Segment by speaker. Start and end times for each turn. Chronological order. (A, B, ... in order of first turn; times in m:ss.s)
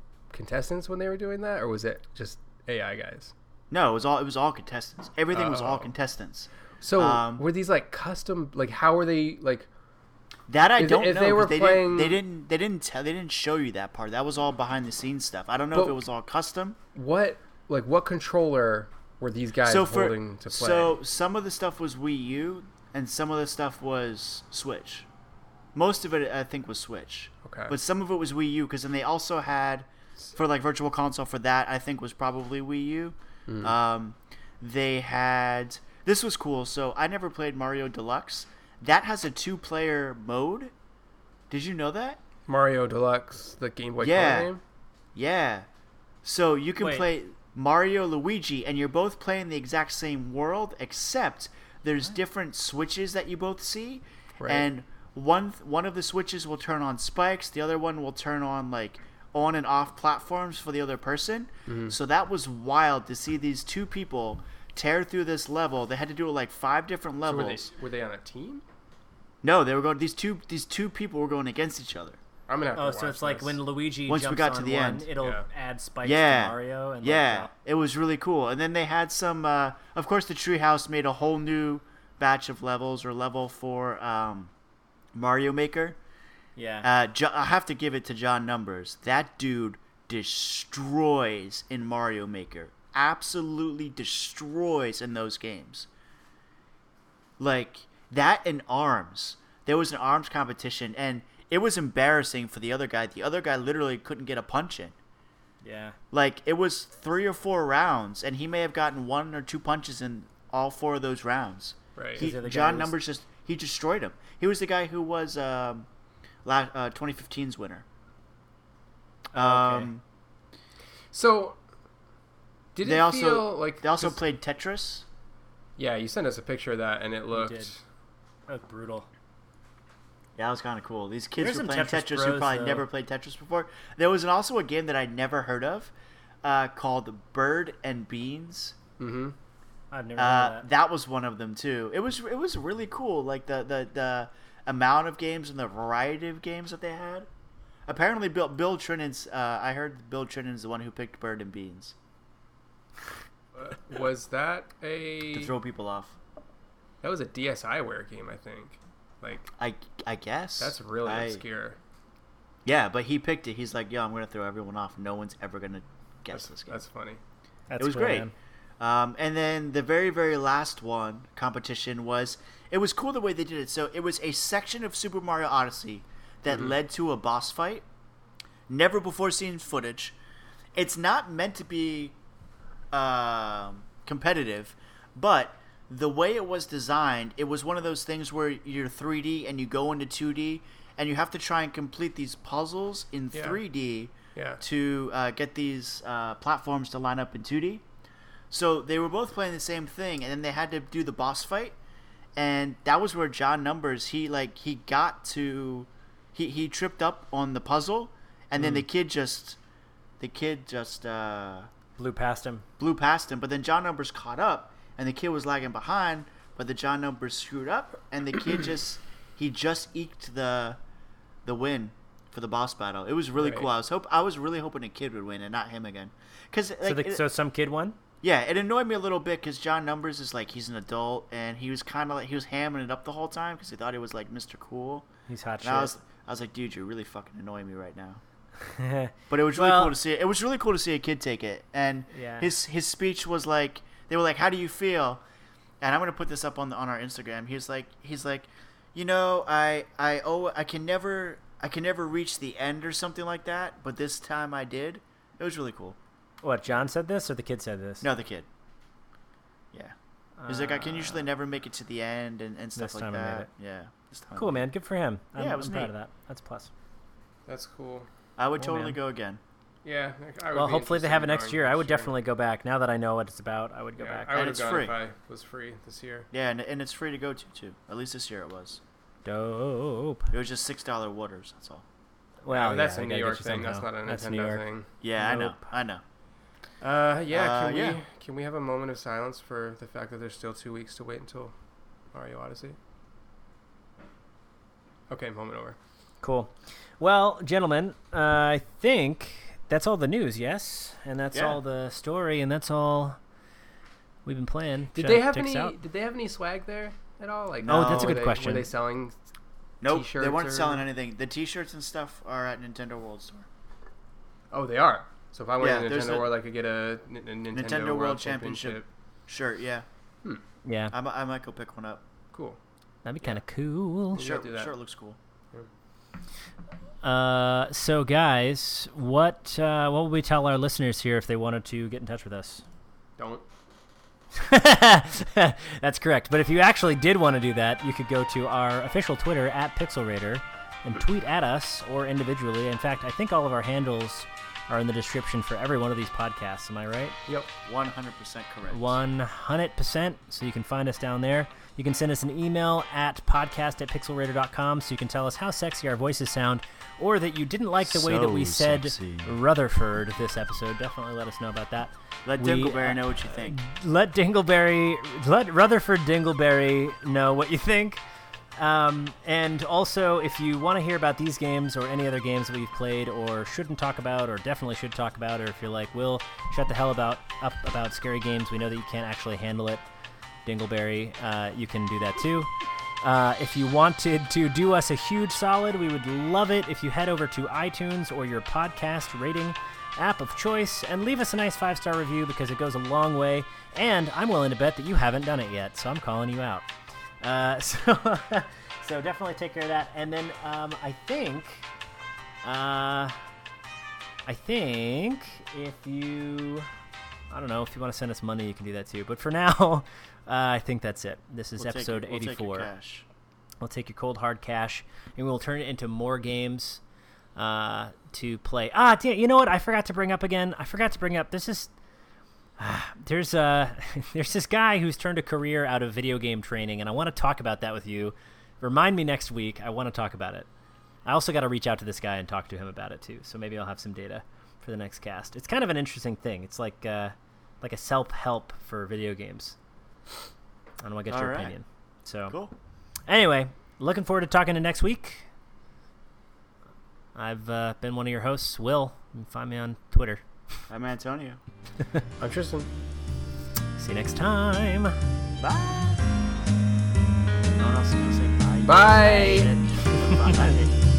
0:00.3-0:03.3 A
0:03.7-0:07.4 B
0:05.3-0:05.9 A
0:06.8-0:09.7 A
0:10.5-0:16.8 B
0:10.8-0:12.2 A
0:15.7-0:16.0 A
0:16.9-0:21.0 A
0:19.6-0:25.1 B
0:25.8-0:40.7 B
0:27.4-0:27.8 A
0:33.5-0:33.8 A
0:41.5-0:42.2 B
0:42.5-0:44.6 A
0:44.0-0:44.5 B
0:45.2-0:45.7 B
0:46.2-1:07.7 B
0:46.8-0:47.1 C
0:54.4-0:54.7 A
1:01.7-1:02.0 A
1:07.2-1:08.6 A
1:09.4-1:12.2 B
1:12.5-1:13.6 A
1:12.8-1:17.5 C
1:14.1-1:15.1 B
1:15.2-1:15.4 A
1:16.0-1:24.5 B
1:25.1-1:26.0 B
1:26.6-1:26.9 C
1:26.8-1:35.9 B
1:37.4-1:45.0 B
1:45.6-1:46.0 C
1:46.1-1:55.9 B
1:52.0-1:52.3 A
1:52.2-1:53.0 C
1:56.4-1:57.8 B
1:59.3-2:00.0 B
1:59.4-1:59.9 C
2:01.1-2:01.6 A
2:02.8-2:04.2 A
2:02.8-2:05.1 B
2:05.8-2:07.8 A
2:07.3-2:07.7 C
2:08.5-2:09.1 C
2:10.4-2:15.9 B
2:11.4-2:12.9 C
2:16.4-2:18.8 B
2:19.0-2:19.4 A
2:19.9-2:20.7 C
2:20.2-2:27.3 B
2:27.9-2:32.0 B
2:33.6-2:35.5 A
2:35.3-2:36.2 B
2:37.0-2:39.5 A
2:39.6-2:41.4 B
2:40.6-2:41.8 A
2:42.6-2:46.8 B
2:46.3-2:47.2 A
2:47.7-2:48.3 C
2:47.8-2:57.8 B
2:56.5-2:56.8 A
2:58.7-3:00.2 B
3:00.8-3:02.2 B
3:02.9-3:17.8 B
3:13.3-3:13.6 A
3:14.4-3:14.6 A
3:18.5-3:21.8 B
3:22.4-3:29.6 B
3:30.2-3:31.7 B
3:32.0-3:32.6 C
3:32.8-3:40.8 B
3:41.4-3:47.2 B
3:43.4-3:43.7 A
3:46.8-3:48.0 C
3:48.2-3:55.1 B
3:55.3-3:55.9 C
3:55.6-3:58.2 B
3:58.6-4:00.0 C
3:59.3-4:05.2 B
4:02.1-4:02.5 C
4:05.8-4:16.0 B
4:16.4-4:18.1 C
4:18.0-4:18.5 B
4:20.4-4:21.3 C
4:20.5-4:24.6 B
4:22.8-4:23.5 C
4:24.4-4:26.7 C
4:25.4-4:25.9 B
4:27.5-4:28.1 A
4:28.4-4:29.4 B
4:28.6-4:29.0 C
4:29.8-4:32.1 A
4:30.5-4:34.4 C
4:34.0-4:36.3 A
4:34.3-4:35.0 B
4:36.3-4:38.8 B
4:39.2-4:40.3 C
4:40.3-4:41.8 B
4:42.4-4:44.6 C
4:42.5-4:44.9 A
4:45.0-4:46.0 B
4:45.2-4:45.6 C
4:46.8-4:51.5 A
4:47.3-4:48.0 B
4:52.1-4:52.8 A
4:55.1-4:55.8 A
4:56.2-5:03.2 C
5:01.3-5:01.6 B
5:04.2-5:05.8 C
5:04.9-5:09.2 A
5:07.6-5:08.3 B
5:07.7-5:08.7 C
5:09.8-5:13.5 B
5:09.8-5:10.8 A
5:14.5-5:18.9 A
5:15.6-5:16.3 B
5:17.5-5:19.9 B
5:20.6-5:20.9 C
5:20.9-5:22.0 B
5:22.3-5:22.6 A
5:23.0-5:24.2 C
5:24.1-5:24.7 A
5:24.2-5:25.2 B
5:27.0-5:32.6 C
5:33.2-5:33.4 A
5:34.4-5:47.2 C
5:47.6-5:49.0 B
5:48.7-6:08.0 C
5:57.8-5:59.3 B
6:02.3-6:03.6 B
6:08.6-6:19.8 C
6:20.4-6:36.7 C
6:37.2-6:41.7 C
6:42.4-6:43.2 C
6:44.3-6:46.7 C
6:47.3-6:52.7 C
6:51.6-6:53.1 B
6:53.6-6:56.8 C
6:57.4-7:01.7 C
7:02.6-7:10.5 C
7:11.0-7:19.6 C
7:20.8-7:22.4 C
7:21.1-7:21.6 B
7:22.3-7:22.5 B
7:23.1-7:25.3 C
7:27.2-7:30.2 C
7:30.7-7:31.4 B
7:32.2-7:32.7 A
7:33.8-7:35.0 C
7:35.4-7:36.0 B
7:37.6-7:40.8 B
7:38.7-7:39.5 A